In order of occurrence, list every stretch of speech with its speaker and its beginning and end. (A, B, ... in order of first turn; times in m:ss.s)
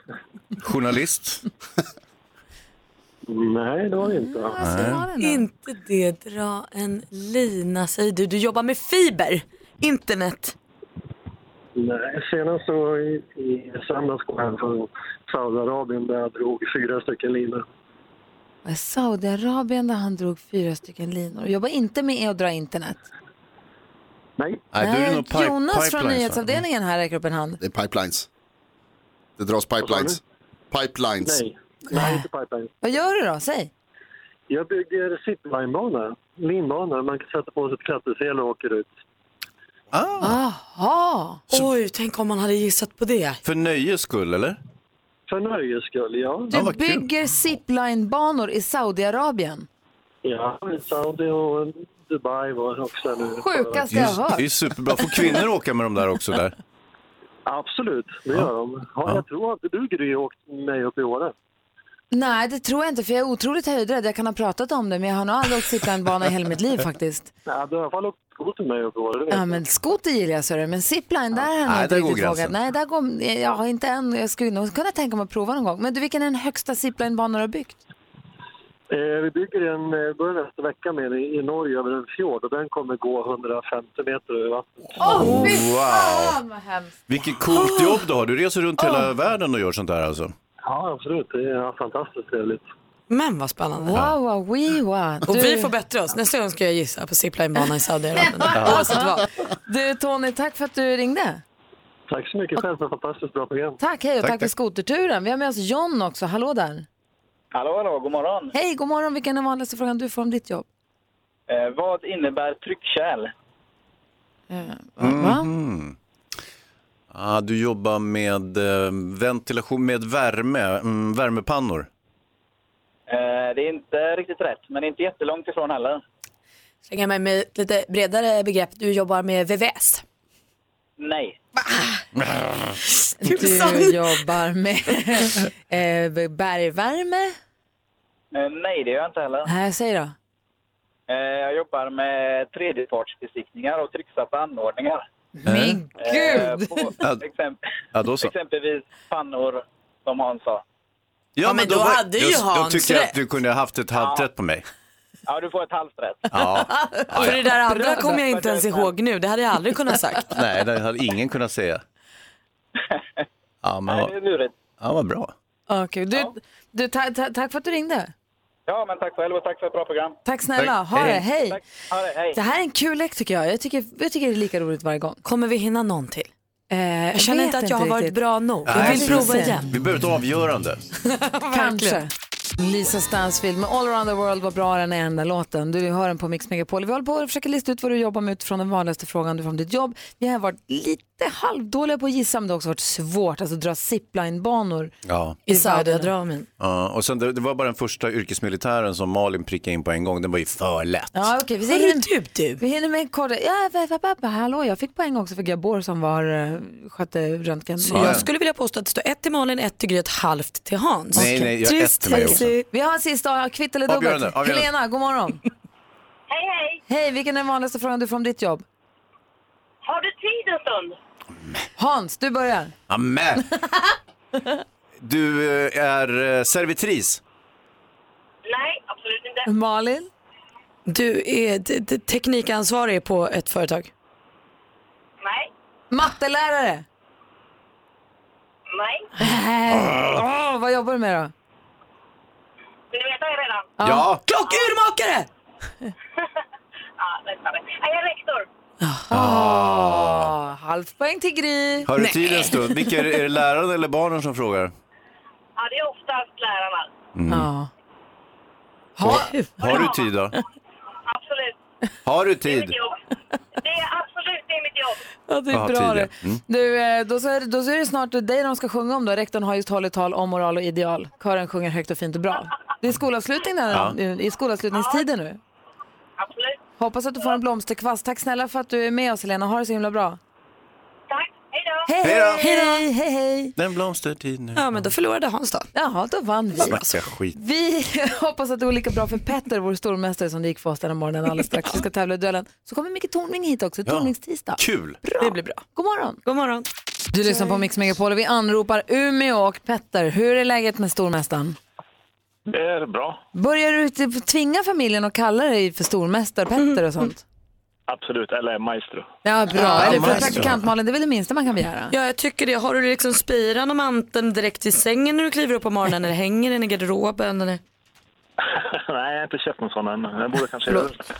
0:00.6-0:01.4 A
0:03.3-0:04.6 B
0:04.0-0:05.4 C
0:04.6-0:05.0 A
0:05.2-0:10.5 D
0:11.8-0:17.6 B
0:18.6-0:23.0 C
0:24.4-0:24.6 B
0:24.7-0:26.6 A
0:24.8-0:27.6 C
0:27.6-0:28.3 E
0:29.4-0:30.2 E
0:29.8-0:30.2 B
0:30.7-0:31.4 E
0:31.2-0:32.7 B
0:31.9-0:32.2 C
0:32.8-0:33.7 C
0:34.5-0:38.9 B
0:39.9-0:40.4 A
0:40.2-0:41.4 C
0:41.5-0:43.4 D
0:43.4-0:44.6 A
0:45.3-0:46.5 B
0:46.5-0:49.7 C
0:46.5-0:47.1 A
0:50.2-0:54.1 B
0:53.4-0:54.4 C
0:53.9-0:56.5 A
0:57.4-1:01.3 B
1:02.1-1:07.3 C
1:07.5-1:09.6 B
1:09.3-1:17.8 C
1:11.6-1:12.5 A
1:18.9-1:25.2 B
1:25.0-1:27.0 C
1:25.1-1:26.4 A
1:27.1-1:30.3 A
1:28.8-1:29.1 C
1:30.6-1:32.6 B
1:33.1-1:34.0 D
1:33.8-1:35.7 C
1:35.3-1:39.2 D
1:38.2-1:41.4 C
1:38.5-1:38.9 A
1:42.1-1:43.8 B
1:43.8-1:46.9 C
1:44.2-1:44.5 A
1:47.5-1:48.5 F
1:48.5-1:50.6 C
1:51.5-1:53.3 F
1:54.5-1:55.5 C
1:55.0-1:56.0 A
1:57.1-2:01.9 A
2:03.1-2:06.0 F
2:06.9-2:10.0 D
2:11.0-2:11.4 F
2:12.9-2:14.2 D
2:13.2-2:17.4 C
2:18.3-2:19.5 F
2:19.4-2:20.1 C
2:21.1-2:25.0 F
2:25.4-2:26.9 C
2:25.4-2:25.8 A
2:26.0-2:27.6 F
2:27.9-2:28.3 A
2:28.2-2:30.6 F
2:31.4-2:34.6 A
2:31.4-2:33.1 D
2:33.9-2:34.3 F
2:35.3-2:36.3 F
2:36.3-2:37.5 A
2:36.7-2:37.1 C
2:37.1-2:40.4 D
2:37.6-2:38.2 C
2:38.1-2:38.9 F
2:40.3-2:41.8 A
2:42.9-2:43.2 F
2:43.6-2:44.1 A
2:43.9-2:44.6 F
2:44.8-2:45.3 A
2:45.7-2:48.1 C
2:48.7-2:50.2 F
2:50.2-2:51.6 C
2:50.6-2:51.2 A
2:51.4-2:52.4 F
2:52.3-2:55.2 C
2:55.2-2:56.3 D
2:56.7-2:58.2 C
2:57.2-2:59.7 D
2:58.6-3:00.8 A
2:58.7-2:59.6 C
3:01.1-3:02.0 D
3:01.5-3:14.9 C
3:15.0-3:15.4 A
3:15.5-3:16.1 C
3:15.5-3:16.5 D
3:16.6-3:21.3 A
3:21.1-3:28.2 C
3:21.7-3:22.6 D
3:27.8-3:32.6 D
3:27.9-3:28.3 A
3:31.1-3:32.5 A
3:31.2-3:31.4 C
3:32.1-3:35.4 C
3:33.9-3:34.7 A
3:36.3-3:36.6 G
3:36.9-3:38.6 C
3:39.9-3:40.9 G
3:41.8-3:42.7 C
3:42.9-3:43.4 A
3:45.0-3:47.2 A
3:48.5-3:49.4 G
3:49.4-3:50.1 C
3:50.9-3:53.9 D
3:55.9-3:56.8 C
3:59.2-4:01.3 C
4:03.8-4:04.1 C
4:03.8-4:04.2 A
4:04.2-4:05.3 D
4:07.8-4:08.4 G
4:09.0-4:11.9 C
4:09.1-4:10.3 A
4:11.8-4:14.7 A
4:12.0-4:13.0 D
4:15.6-4:16.8 G
4:17.1-4:17.5 A
4:17.3-4:17.7 C
4:19.0-4:19.8 C
4:19.0-4:20.4 A
4:19.1-4:19.5 D
4:22.0-4:22.8 A
4:23.9-4:24.2 G
4:25.3-4:35.4 C
4:25.5-4:26.4 A
4:33.7-4:34.0 A
4:36.8-4:40.2 C
4:41.9-4:43.5 C
4:42.0-4:42.4 A
4:42.4-4:42.8 D
4:43.6-4:44.9 A
4:44.5-4:45.7 D
4:45.7-4:46.8 C
4:46.6-4:47.4 A
4:46.7-4:47.0 D
4:47.4-4:56.2 C
4:53.9-4:55.0 A
4:55.2-4:55.6 D
4:56.2-4:56.6 D
4:57.1-5:01.6 C
5:02.6-5:03.1 H
5:03.3-5:07.2 C
5:07.9-5:09.0 H
5:09.2-5:11.9 C
5:09.6-5:10.4 D
5:09.7-5:10.6 A
5:11.9-5:17.6 D
5:18.5-5:21.0 H